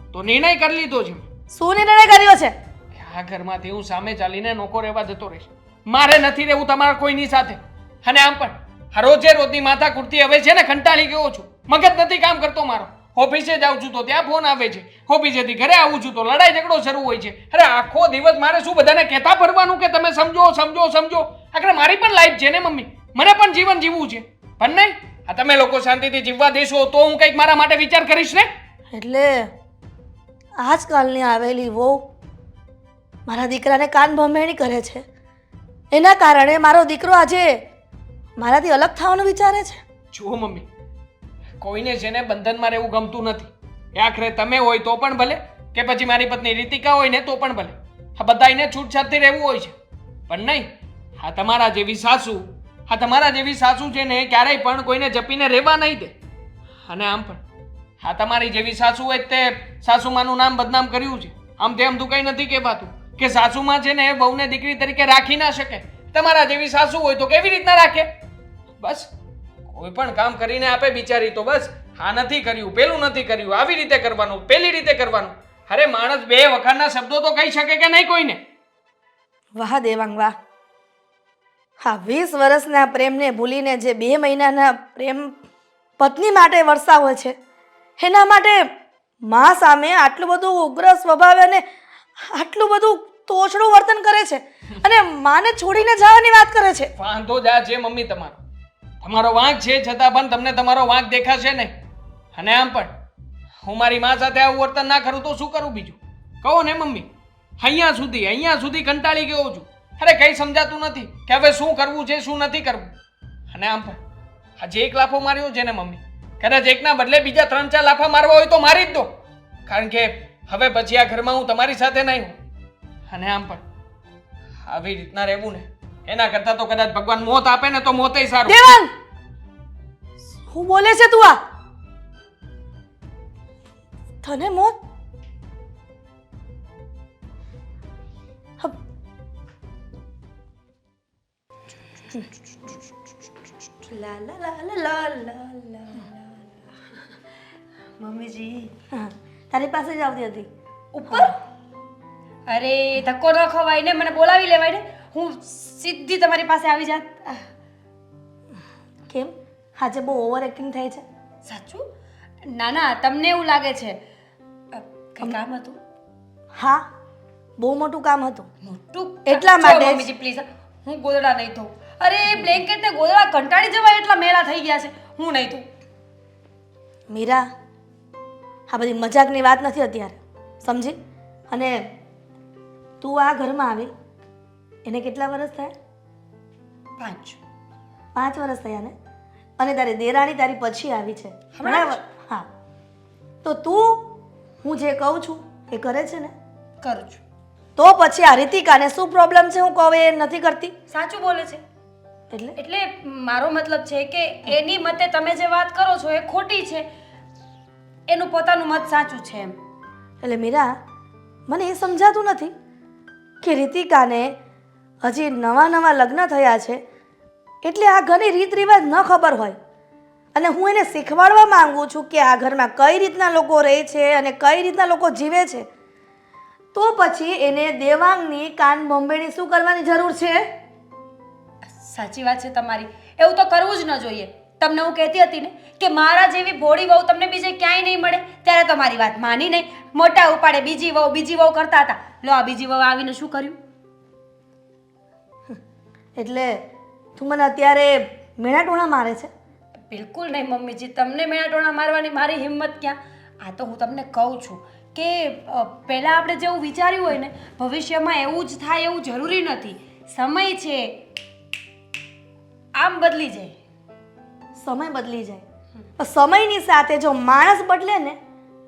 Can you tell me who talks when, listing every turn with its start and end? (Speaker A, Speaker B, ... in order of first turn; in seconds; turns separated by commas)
Speaker A: 0.1-1.2, Speaker B: 1.5-2.5, Speaker A: 3.0-28.5, Speaker B: 28.9-29.5, Speaker B: 30.6-32.0, Speaker B: 33.3-35.0, Speaker B: 35.9-37.6, Speaker B: 38.4-39.8, Speaker A: 40.1-40.7, Speaker A: 41.6-49.8, Speaker A: 50.3-56.1, Speaker A: 56.9-57.4, Speaker A: 58.0-68.1, Speaker A: 68.8-69.1, Speaker A: 69.7-78.4, Speaker B: 79.6-80.3, Speaker B: 81.8-85.4, Speaker B: 86.0-87.3, Speaker B: 88.0-88.6, Speaker B: 89.3-91.6, Speaker B: 92.3-96.9, Speaker A: 97.0-98.4, Speaker A: 99.0-101.8, Speaker A: 102.3-102.9, Speaker A: 103.6-107.1, Speaker A: 107.6-112.9, Speaker A: 113.5-114.0, Speaker A: 114.6-119.1, Speaker A: 119.7-122.4, Speaker A: 123.1-123.6, Speaker A: 124.7-128.7, Speaker B: 128.5-128.9, Speaker B: 130.5-131.4, Speaker B: 134.2-134.8, Speaker C: 143.8-147.0, Speaker C: 148.0-148.7, Speaker B: 148.9-150.5, Speaker C: 150.9-151.4, Speaker B: 151.1-151.3, Speaker C: 152.5-157.4, Speaker B: 159.1-161.0, Speaker C: 161.4-161.8, Speaker C: 162.5-164.0, Speaker C: 164.7-165.8, Speaker B: 166.6-166.8, Speaker B: 167.6-168.5, Speaker C: 168.6-175.7, Speaker B: 169.2-170.1, Speaker B: 177.1-177.5, Speaker B: 178.7-181.0, Speaker B: 181.5-181.8, Speaker B: 183.0-183.9, Speaker B: 184.9-185.7, Speaker C: 187.0-187.4, Speaker B: 188.2-188.9, Speaker B: 189.6-192.5, Speaker C: 191.6-192.0, Speaker B: 193.4-194.1, Speaker B: 194.6-196.3, Speaker C: 196.8-197.2, Speaker B: 197.8-200.7, Speaker C: 200.9-201.6, Speaker B: 202.3-202.6, Speaker C: 202.6-206.9, Speaker C: 208.1-209.6, Speaker B: 210.2-210.7, Speaker B: 211.5-212.5, Speaker B: 213.4-214.3, Speaker B: 215.0-216.8, Speaker B: 217.6-219.6, Speaker B: 220.3-225.7, Speaker B: 226.7-230.4, Speaker C: 231.7-243.6, Speaker B: 246.2-246.6, Speaker B: 247.2-249.3, Speaker C: 249.9-261.0, Speaker C: 262.8-263.6, Speaker B: 264.6-265.4, Speaker B: 266.0-268.2